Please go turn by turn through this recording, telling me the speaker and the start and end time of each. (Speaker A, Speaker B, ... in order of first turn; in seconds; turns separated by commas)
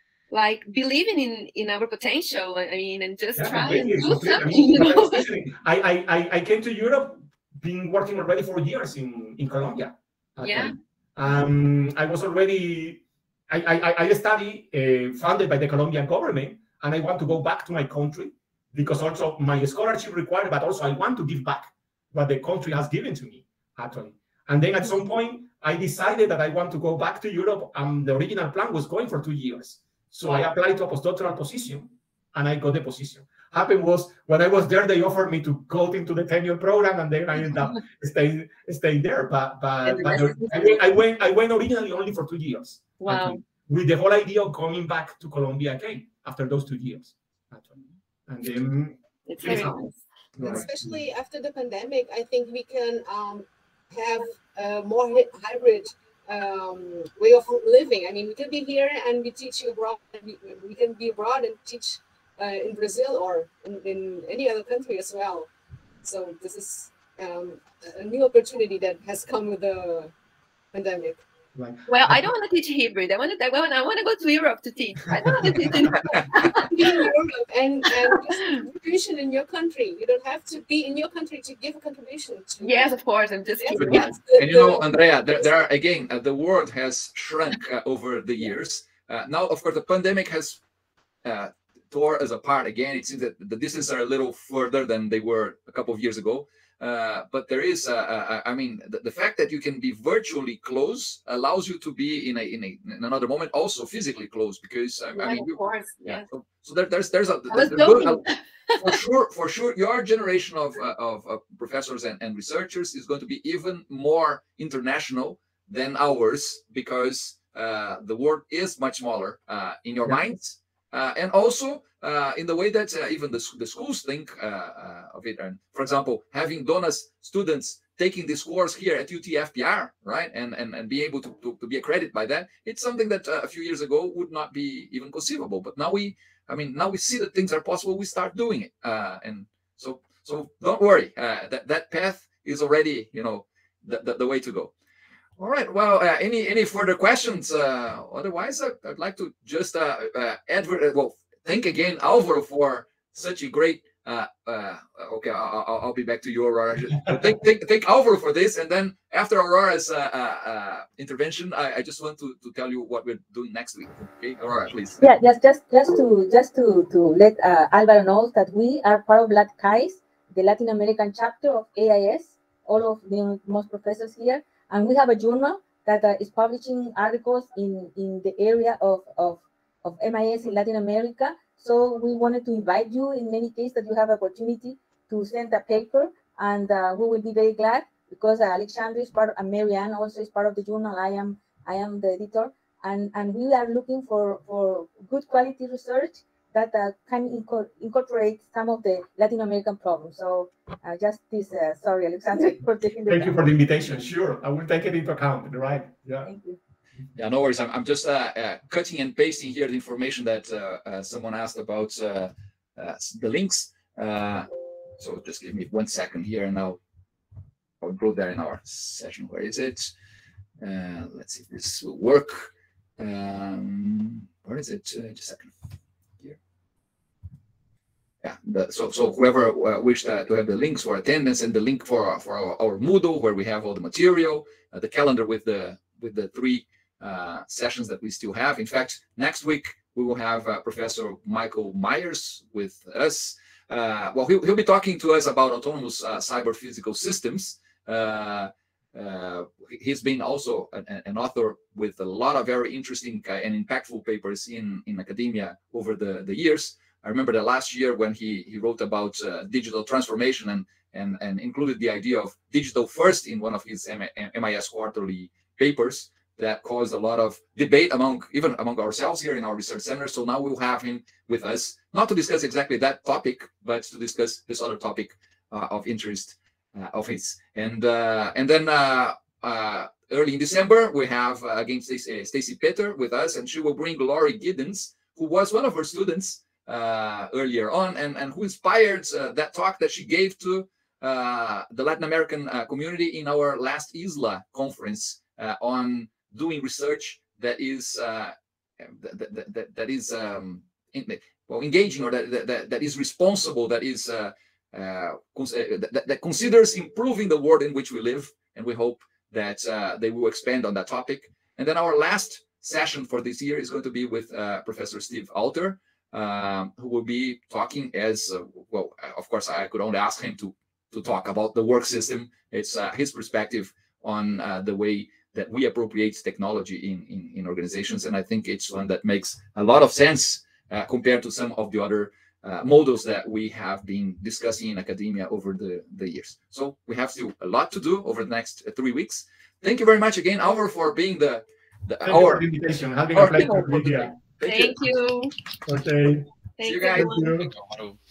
Speaker A: 0.3-5.2, Speaker B: 3.4-49.8, Speaker A: 10.4-10.8, Speaker A: 37.4-37.8, Speaker A: 39.8-40.9, Speaker A: 43.0-43.4, Speaker A: 49.2-50.0, Speaker B: 50.4-51.0, Speaker C: 50.4-65.5, Speaker C: 66.0-70.1, Speaker C: 70.7-71.2, Speaker B: 71.5-72.3, Speaker A: 71.9-77.1, Speaker C: 76.6-82.9, Speaker A: 78.1-78.6, Speaker A: 82.6-84.2, Speaker C: 83.6-84.8, Speaker D: 83.8-90.6, Speaker D: 91.2-108.2, Speaker A: 105.1-106.2, Speaker A: 107.5-109.0, Speaker D: 108.8-144.7, Speaker D: 145.4-165.0, Speaker E: 165.0-203.4, Speaker B: 203.1-206.3, Speaker E: 206.2-206.6, Speaker D: 207.1-216.8, Speaker D: 217.8-219.9, Speaker D: 220.6-225.6, Speaker D: 228.2-342.5, Speaker B: 342.1-344.1, Speaker D: 343.1-345.0, Speaker A: 344.4-345.3, Speaker B: 345.6-346.3, Speaker A: 346.6-347.4, Speaker D: 346.6-347.9, Speaker B: 346.9-347.5